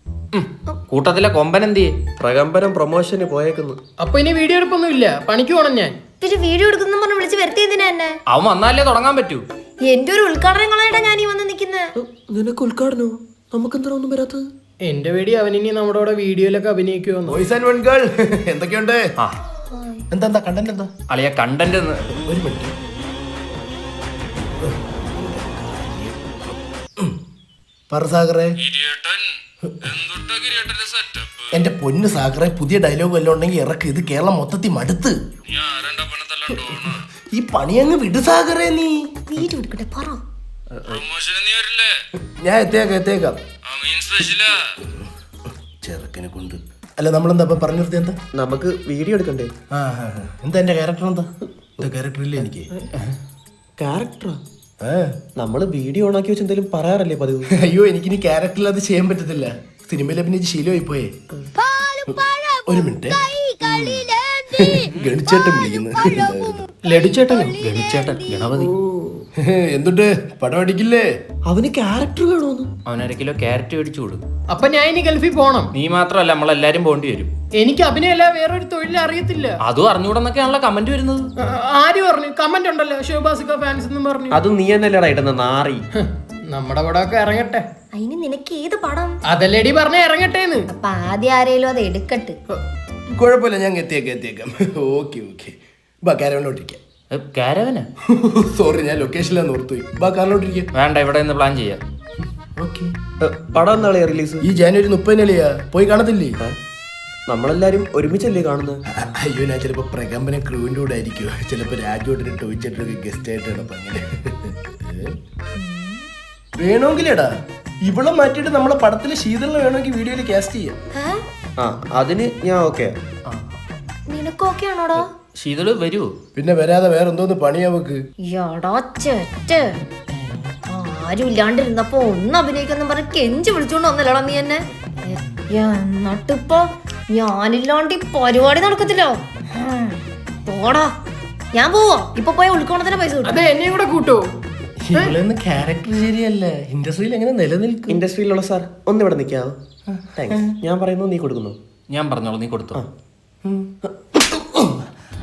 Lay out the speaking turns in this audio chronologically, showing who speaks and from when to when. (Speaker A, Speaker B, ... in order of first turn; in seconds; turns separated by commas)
Speaker A: 0.3-1.9, Speaker B: 2.2-3.8, Speaker C: 4.0-6.0, Speaker D: 6.2-8.1, Speaker A: 8.3-9.4, Speaker D: 9.9-11.9, Speaker B: 12.0-14.5, Speaker C: 14.8-17.4, Speaker E: 17.3-19.1, Speaker D: 19.7-20.0, Speaker E: 20.1-20.9, Speaker A: 21.1-22.0, Speaker E: 22.3-22.7, Speaker E: 24.6-27.2, Speaker E: 27.9-28.6, Speaker D: 30.4-31.1, Speaker E: 31.5-35.2, Speaker D: 35.6-36.5, Speaker E: 36.5-39.1, Speaker D: 39.3-40.2, Speaker D: 41.0-41.9, Speaker E: 42.2-43.4, Speaker D: 43.8-44.1, Speaker E: 44.8-45.1, Speaker E: 45.8-48.2, Speaker B: 48.3-49.5, Speaker E: 49.7-52.7, Speaker B: 53.8-54.4, Speaker E: 54.8-55.1, Speaker B: 55.4-57.5, Speaker E: 57.5-61.1, Speaker E: 61.9-63.3, Speaker D: 63.4-64.4, Speaker E: 64.5-66.7, Speaker C: 66.8-67.5, Speaker A: 67.5-68.7, Speaker B: 68.6-69.2, Speaker E: 69.4-71.1, Speaker B: 71.5-72.7, Speaker A: 72.9-74.2, Speaker C: 74.5-75.7, Speaker A: 75.7-77.3, Speaker C: 77.6-79.6, Speaker A: 79.6-81.3, Speaker C: 81.4-84.4, Speaker B: 84.3-85.8, Speaker C: 86.0-87.6, Speaker D: 88.0-89.2, Speaker C: 89.3-90.7, Speaker D: 90.7-92.4, Speaker E: 93.1-96.8, Speaker A: 97.1-97.9, Speaker E: 98.1-100.7, Speaker A: 100.7-101.8, Speaker E: 102.6-102.9, Speaker B: 103.2-104.4, Speaker E: 104.4-106.4, Speaker B: 107.3-108.8, Speaker E: 108.9-115.2, Speaker D: 115.6-116.1, Speaker E: 116.6-117.3, Speaker E: 117.8-120.8, Speaker D: 121.0-121.2, Speaker B: 121.6-123.0, Speaker A: 123.3-123.6, Speaker D: 124.1-125.1, Speaker A: 125.0-126.1, Speaker E: 126.3-128.0, Speaker D: 128.3-129.8, Speaker D: 130.7-140.9, Speaker D: 141.5-143.4, Speaker C: 143.2-144.2, Speaker E: 144.8-148.0, Speaker B: 147.9-149.6, Speaker E: 149.9-150.5, Speaker B: 150.2-151.6, Speaker A: 151.9-152.8, Speaker E: 153.4-154.8